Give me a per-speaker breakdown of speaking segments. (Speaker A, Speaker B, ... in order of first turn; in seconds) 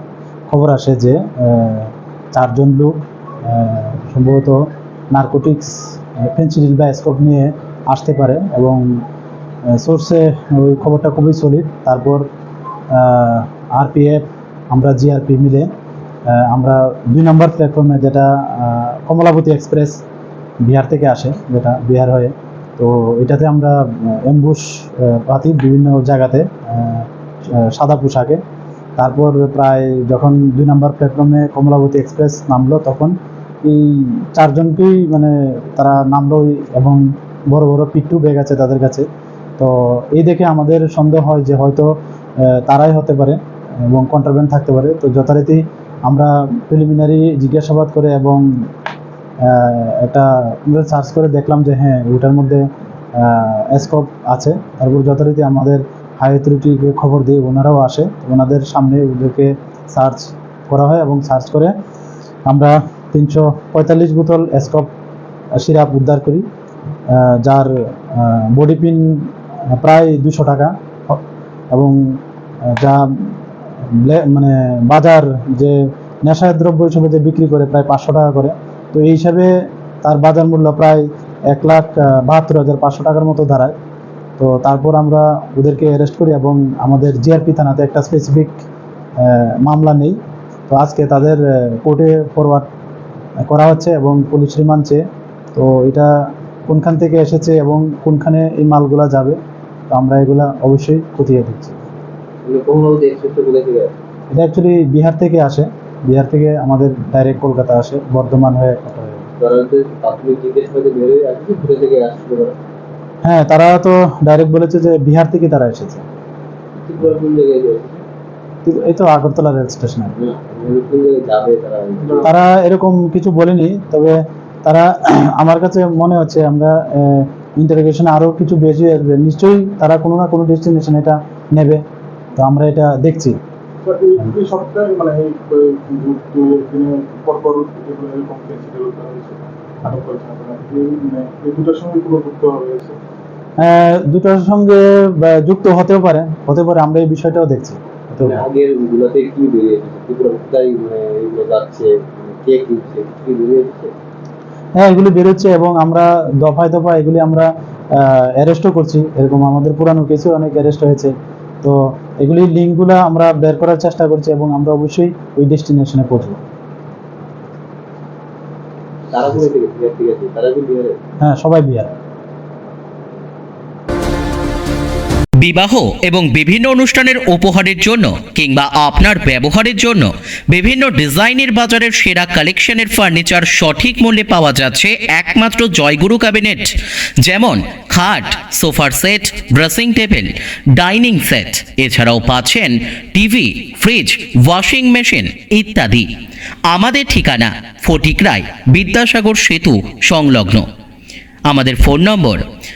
Speaker A: 0.5-8.8, 9.7-12.2, 12.9-15.7, 16.3-20.0, 20.6-28.4, 29.0-39.1, 39.6-48.7, 49.4-61.7, 62.5-64.9, 65.5-66.4, 67.1-71.2, 71.7-79.5, 80.0-83.8, 84.4-88.6, 89.2-90.2, 90.7-92.7, 93.5-95.0, 95.5-96.1, 96.7-99.4, 99.9-101.8, 104.3-109.2, 113.2-116.0, 118.7-120.1, 122.2-131.8, 132.4-133.4, 143.6-148.4, 154.8-166.4, 171.2-171.9
Speaker B: 102.5-104.0, 109.4-112.6, 116.8-118.0, 120.2-122.3, 148.3-153.9, 169.1-171.0
Speaker C: 133.8-143.0
Speaker D: 175.4-196.1, 196.7-200.7, 201.5-202.4